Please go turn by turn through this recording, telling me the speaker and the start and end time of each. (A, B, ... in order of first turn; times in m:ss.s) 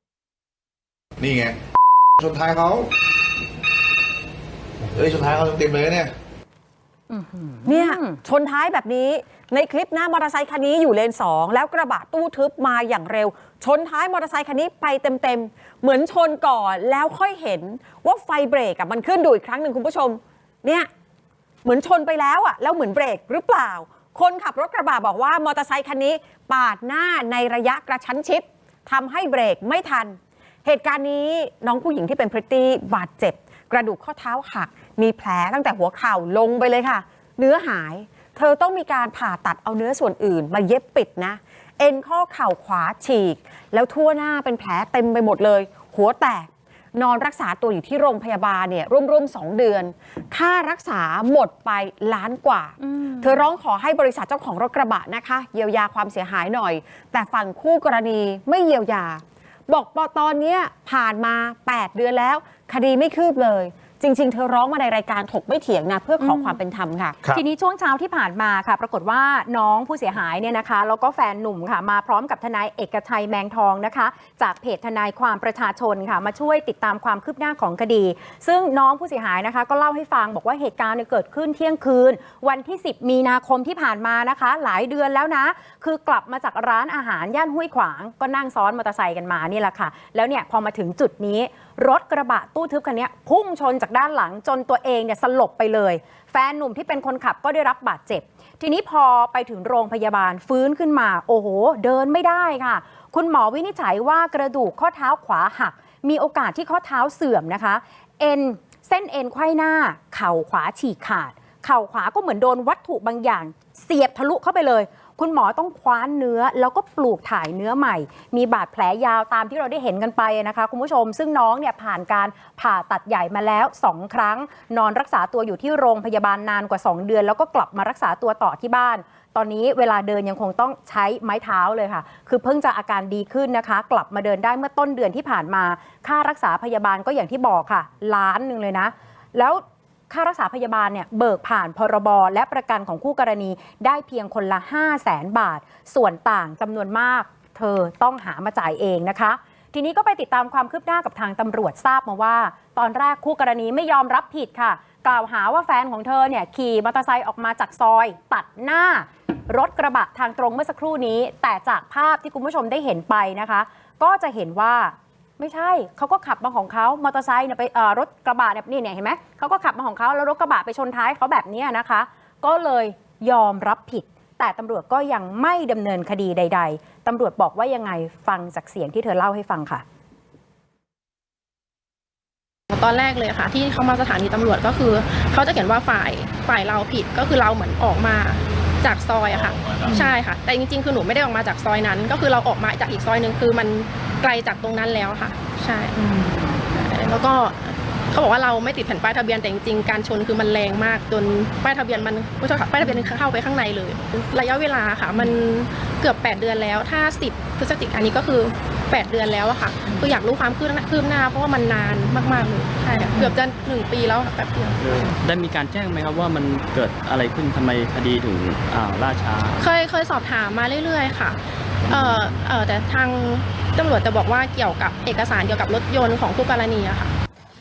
0:01.2-0:01.6 A
0:02.2-0:02.9 A
0:04.9-0:06.1 A
0:07.1-0:08.1 B
0:07.6-0:20.9 C
0:21.6-1:07.2 C
0:52.9-0:53.4 B
1:06.2-1:06.6 B
1:07.3-2:59.8 B
3:02.7-3:16.0 D
3:16.0-3:16.6 B
3:16.7-3:35.1 D
3:34.8-3:39.7 E
3:39.6-3:47.1 D
3:41.9-3:42.3 E